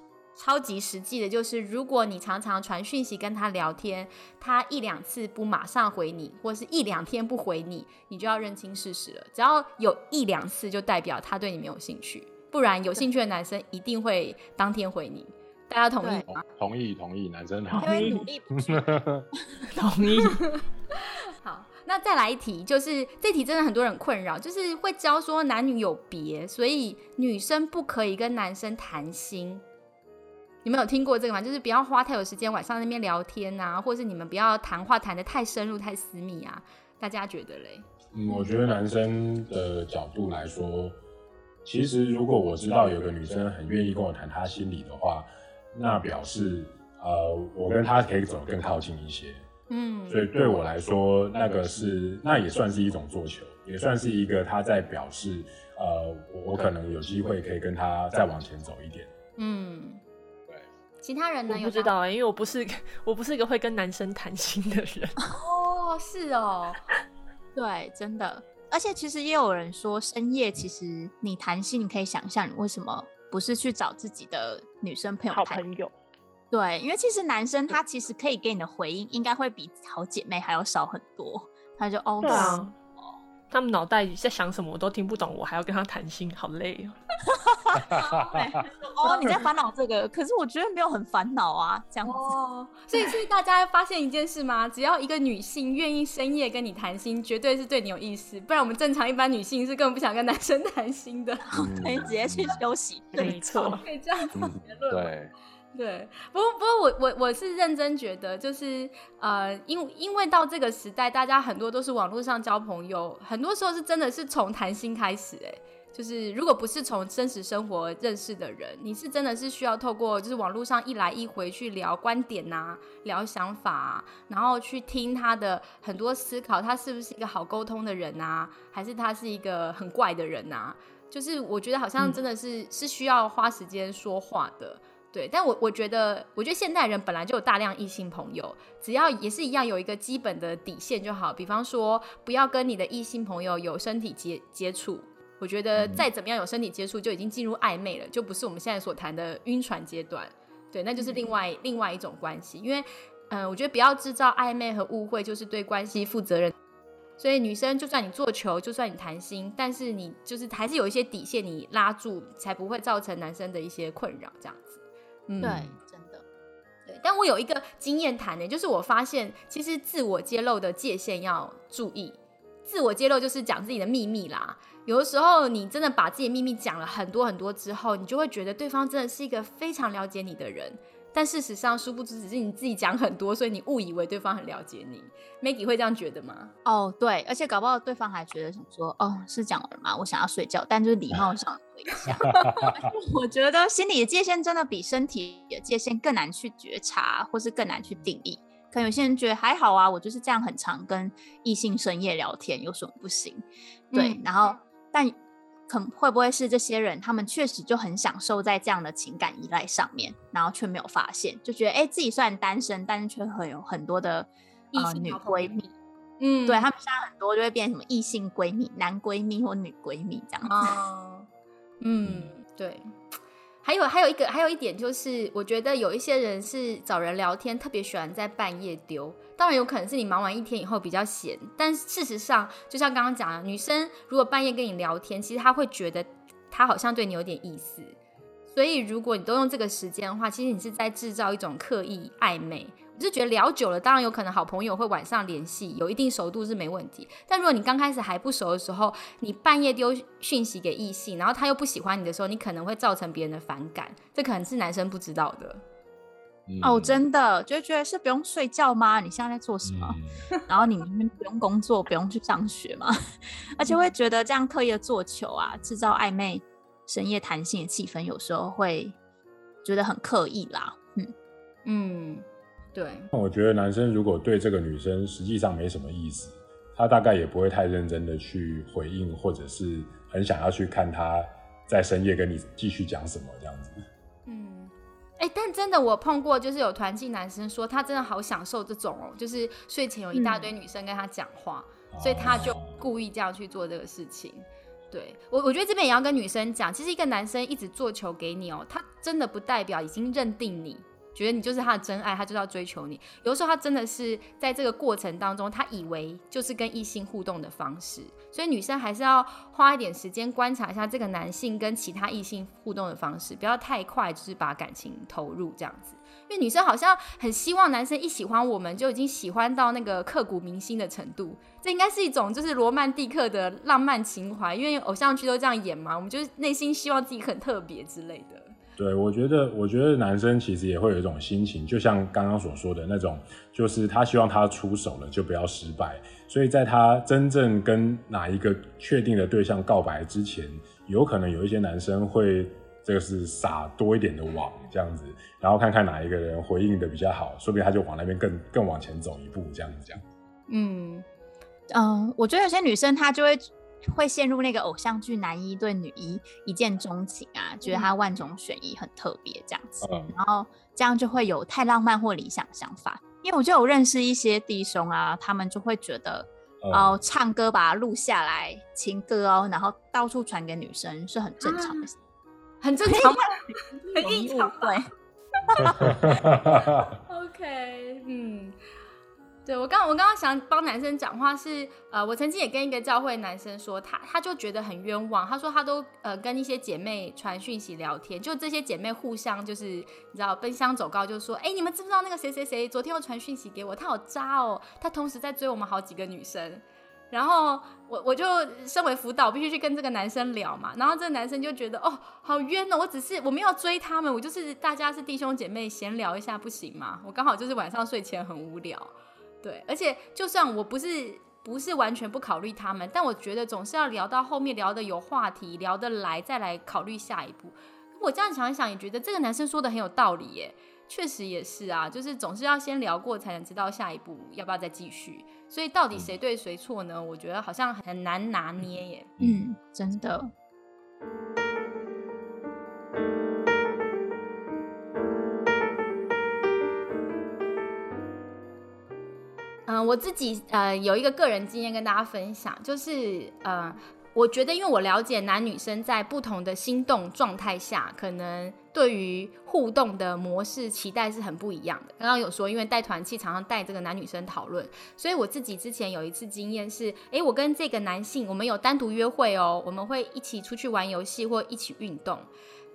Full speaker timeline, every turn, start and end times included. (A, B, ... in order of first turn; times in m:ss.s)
0:00.4-0:16.4 A
0:16.3-0:19.2 B
0:17.7-0:18.2 C
0:17.8-0:20.2 D
0:20.0-0:20.4 E
0:21.4-0:29.6 A
0:30.6-0:37.8 A
0:38.1-0:41.0 B
0:41.6-0:49.4 B
0:49.7-0:50.3 A
0:50.1-0:59.1 B
0:59.4-1:00.0 A
1:01.0-1:01.9 A
1:01.5-1:05.2 E
1:05.3-1:06.8 A
1:07.5-1:15.6 D
1:15.3-1:15.9 C
1:16.5-1:23.2 D
1:22.2-1:22.7 C
1:22.2-1:22.7 E
1:23.5-1:27.0 E
1:27.3-1:32.3 D
1:27.9-1:28.4 A
1:29.0-1:29.3 A
1:32.0-1:41.4 A
1:41.4-1:43.8 D
1:41.5-1:42.6 B
1:43.2-1:43.8 E
1:43.2-1:43.8 C
1:43.7-1:45.1 A
1:44.4-1:45.3 B
1:45.7-2:36.5 A
2:37.2-2:45.7 A
2:45.4-2:46.2 D
2:46.9-3:06.5 A
3:06.6-3:25.2 D
3:12.3-3:12.6 A
3:23.9-3:24.2 A
3:25.7-3:35.7 D
3:34.7-3:35.5 A
3:36.2-3:36.7 A
3:36.4-3:40.7 D
3:40.4-3:41.3 A
3:41.8-3:42.9 A
3:42.0-3:42.3 B
3:43.6-3:58.0 A
3:58.5-4:15.6 A
4:16.5-4:17.0 B
4:16.6-4:23.0 D
4:19.6-4:20.1 B
4:23.5-4:29.0 D
4:23.6-4:23.9 A
4:29.6-4:31.1 D
4:31.6-4:33.1 A
4:33.1-4:43.8 B
4:44.2-5:28.5 A
4:50.1-4:50.5 D
4:51.9-4:52.8 B
5:28.8-5:50.0 B
5:50.5-5:51.0 A
5:51.7-6:11.9 D
5:57.6-5:57.9 A
5:59.8-6:00.2 B
6:06.6-6:07.0 B
6:11.4-6:11.8 A
6:12.6-6:14.8 A
6:12.9-6:13.2 D
6:13.9-6:14.9 D
6:15.5-6:16.5 A
6:15.8-6:16.8 B
6:17.0-6:18.5 A
6:19.4-7:09.1 A
7:09.2-7:10.3 D
7:19.6-7:42.3 A